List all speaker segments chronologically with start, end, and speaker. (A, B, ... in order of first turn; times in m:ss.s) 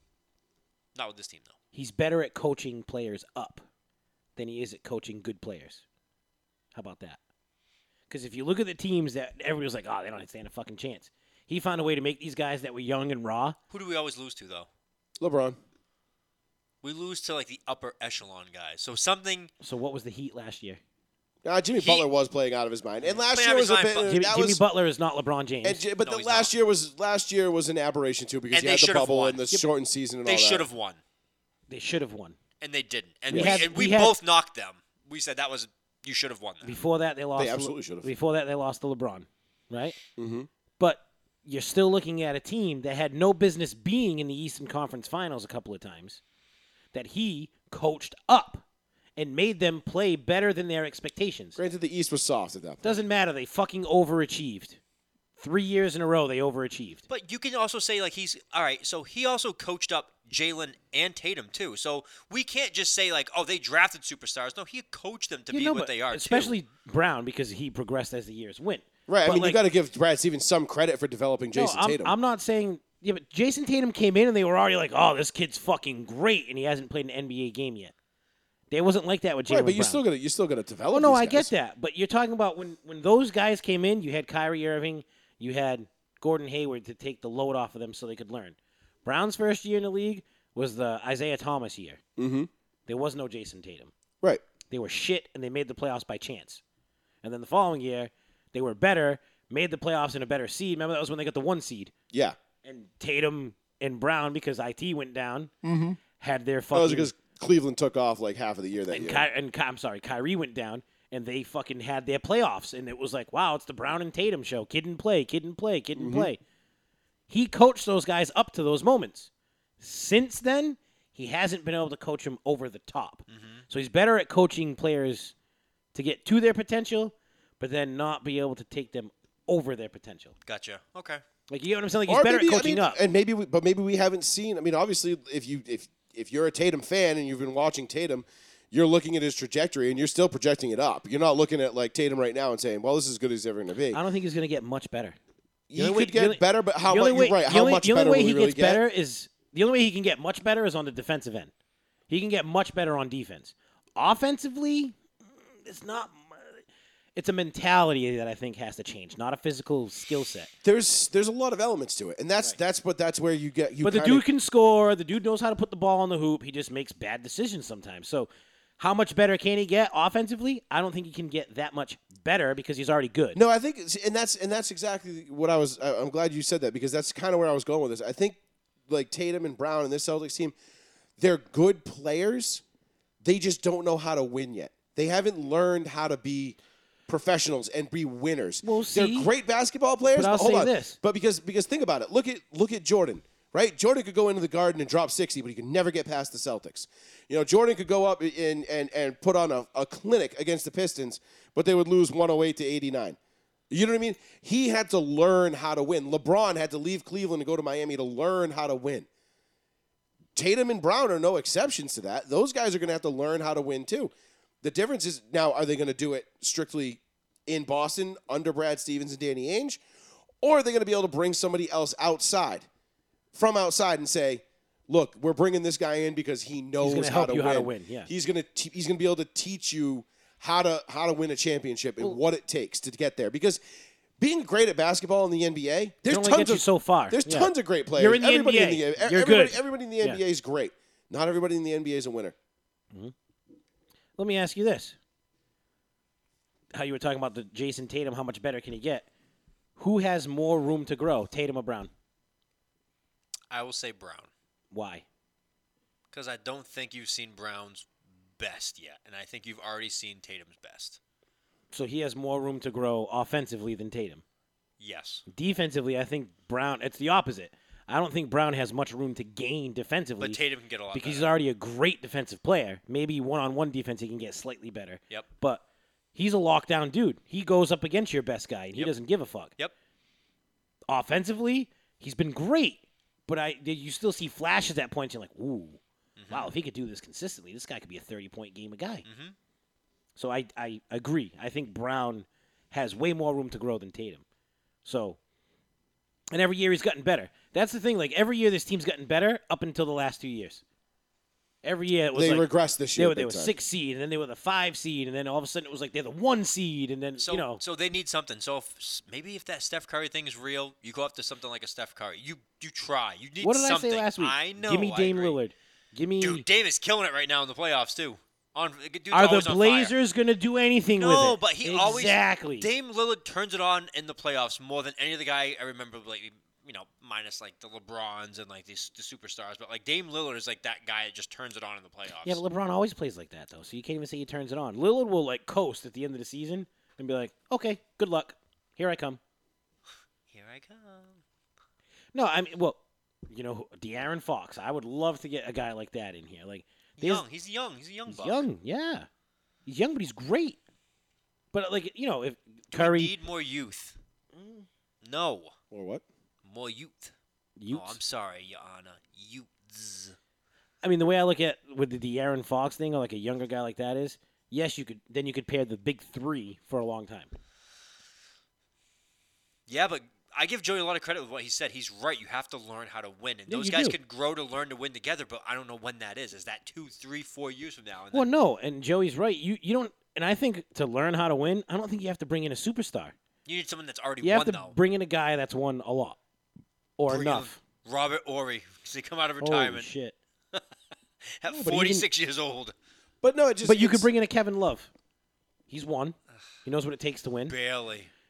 0:01.0-0:01.6 A
0:01.7-0:03.7 B
0:04.4-0:05.8 B
0:06.7-0:07.2 B
0:08.1-0:13.6 B
0:13.7-0:14.7 A
0:15.2-0:15.6 C
0:16.8-0:19.5 A
0:19.6-0:20.8 B
0:21.4-0:24.6 C
0:21.8-0:22.1 A
0:23.3-0:24.1 A
0:24.1-0:25.8 B
0:25.6-0:30.7 C
0:26.0-0:26.5 A
0:28.5-0:29.4 A
0:30.2-0:31.0 A
0:31.7-0:32.4 B
0:32.6-0:36.8 A
0:33.3-0:33.6 C
0:33.3-0:34.2 B
0:36.6-0:40.0 B
0:37.4-0:38.1 C
0:40.2-0:40.5 C
0:40.8-0:46.2 B
0:46.9-0:48.6 B
0:49.2-0:51.6 B
0:51.6-0:53.0 C
0:52.8-0:54.8 B
0:55.4-0:57.0 B
0:57.1-1:06.6 A
1:05.5-1:09.6 B
1:09.1-1:12.2 C
1:11.5-1:17.9 B
1:18.7-1:20.0 B
1:19.5-1:21.5 C
1:20.9-1:32.0 B
1:32.2-1:32.5 C
1:32.9-1:33.9 B
1:34.7-1:36.6 B
1:37.2-1:41.9 B
1:42.1-1:42.4 C
1:42.6-1:45.5 B
1:45.6-1:46.0 C
1:46.2-1:47.1 B
1:46.7-1:49.3 C
1:48.9-1:56.4 B
1:56.0-1:56.3 C
1:57.3-2:05.3 B
2:03.3-2:03.6 A
2:05.9-2:10.4 B
2:10.5-2:11.2 A
2:11.5-2:13.0 B
2:12.1-2:24.0 C
2:23.9-2:25.2 B
2:25.7-2:28.8 C
2:25.7-2:31.5 B
2:32.1-2:36.6 B
2:37.2-2:40.5 B
2:40.6-2:44.2 C
2:43.8-2:53.4 B
2:53.4-3:00.6 C
3:01.2-3:02.6 C
3:03.2-3:23.2 C
3:08.6-3:09.3 B
3:10.1-3:11.0 B
3:23.7-3:29.1 C
3:30.4-3:39.8 C
3:40.4-3:42.7 C
3:43.3-3:53.6 C
3:46.8-3:48.1 B
3:54.2-4:02.4 C
3:56.1-4:00.2 B
4:04.2-4:05.0 B
4:06.7-4:09.1 B
4:09.8-4:11.9 B
4:13.5-4:14.3 A
4:14.7-4:15.0 B
4:16.1-4:17.9 A
4:18.4-4:21.0 A
4:21.7-4:24.2 B
4:24.8-4:25.2 A
4:25.3-4:30.4 B
4:30.2-4:31.3 A
4:30.9-4:35.6 B
4:36.2-4:39.5 B
4:40.9-4:49.0 B
4:46.2-4:46.5 A
4:49.0-4:49.4 A
4:50.2-4:54.2 B
4:54.8-4:55.2 B
4:56.3-5:00.6 B
5:01.6-5:07.6 B
5:02.2-5:03.6 C
5:07.2-5:15.4 A
5:13.4-5:16.4 B
5:16.2-5:19.9 A
5:19.1-5:22.7 B
5:21.0-5:32.4 A
5:32.2-5:39.2 B
5:40.3-5:41.2 A
5:42.1-5:42.8 B
5:43.3-5:47.2 B
5:47.0-5:48.4 A
5:48.1-5:49.1 B
5:49.7-5:50.6 B
5:51.5-5:53.1 B
5:52.7-5:54.0 A
5:54.3-5:54.7 B
5:55.0-5:55.5 A
5:55.7-5:56.0 C
5:56.4-5:57.1 A
5:57.6-5:58.0 B
5:57.7-6:00.2 A
6:00.8-6:07.3 B
6:09.7-6:18.3 A
6:13.5-6:14.0 B
6:18.1-6:23.1 B
6:23.5-6:24.8 A
6:24.2-6:26.2 B
6:27.0-6:27.6 B
6:27.1-6:29.9 A
6:29.4-6:30.2 B
6:31.4-6:32.7 A
6:31.5-6:32.1 B
6:33.2-6:34.1 C
6:33.6-6:34.9 B
6:35.7-6:37.6 B
6:37.5-6:38.1 A